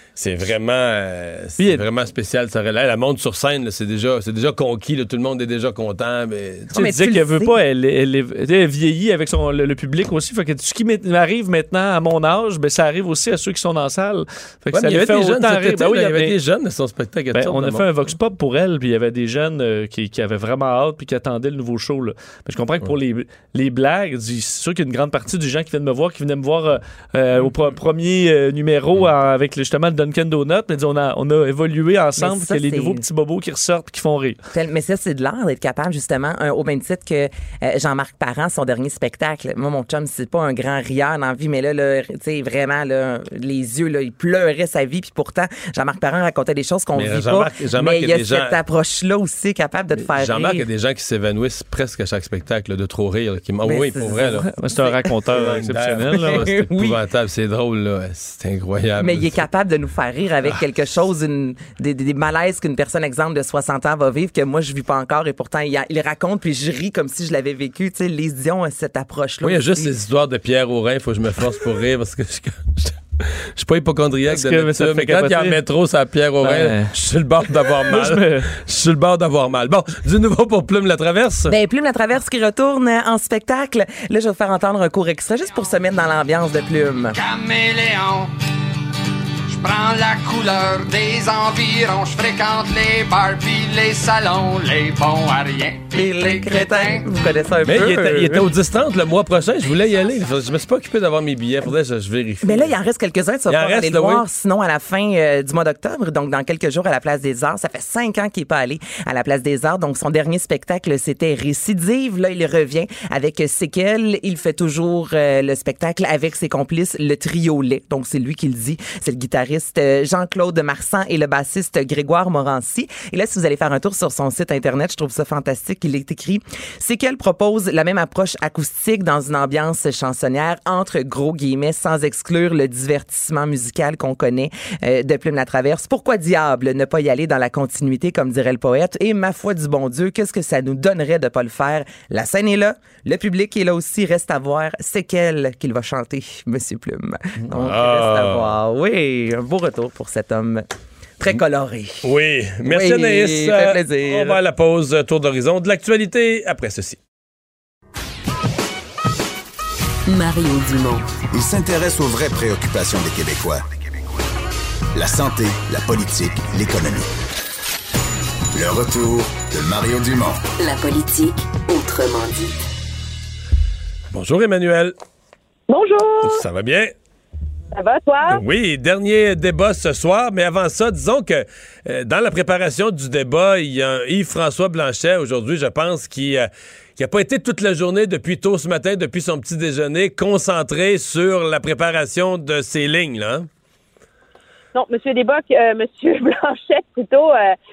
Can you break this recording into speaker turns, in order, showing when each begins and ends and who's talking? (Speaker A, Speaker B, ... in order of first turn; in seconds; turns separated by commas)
Speaker A: 0.2-6.7, Speaker B: 1.6-1.8, Speaker C: 6.7-7.6, Speaker B: 6.8-16.4, Speaker A: 14.7-17.9, Speaker B: 17.3-34.4, Speaker C: 32.2-33.0, Speaker C: 34.5-50.6, Speaker A: 46.9-48.5, Speaker A: 50.0-54.5, Speaker C: 53.6-55.6, Speaker B: 54.4-56.5, Speaker A: 55.3-59.4, Speaker C: 56.1-57.0, Speaker C: 59.0-69.9, Speaker A: 69.4-81.5, Speaker B: 74.3-75.6, Speaker B: 76.4-76.9, Speaker B: 77.9-78.5, Speaker C: 81.5-87.2, Speaker D: 87.2-88.3, Speaker D: 89.5-97.0, Speaker C: 96.0-98.5, Speaker A: 97.7-102.7, Speaker C: 102.4-150.7, Speaker A: 103.5-104.2, Speaker A: 147.5-148.5, Speaker C: 151.2-152.1, Speaker A: 152.0-157.0, Speaker C: 152.6-154.4, Speaker E: 160.1-161.1, Speaker F: 161.3-163.6, Speaker F: 164.9-167.1, Speaker F: 168.5-170.4, Speaker E: 170.6-172.6, Speaker A: 174.1-174.9, Speaker G: 175.7-176.4, Speaker A: 176.2-176.9, Speaker G: 177.7-178.4, Speaker A: 178.3-193.5, Speaker G: 194.8-197.6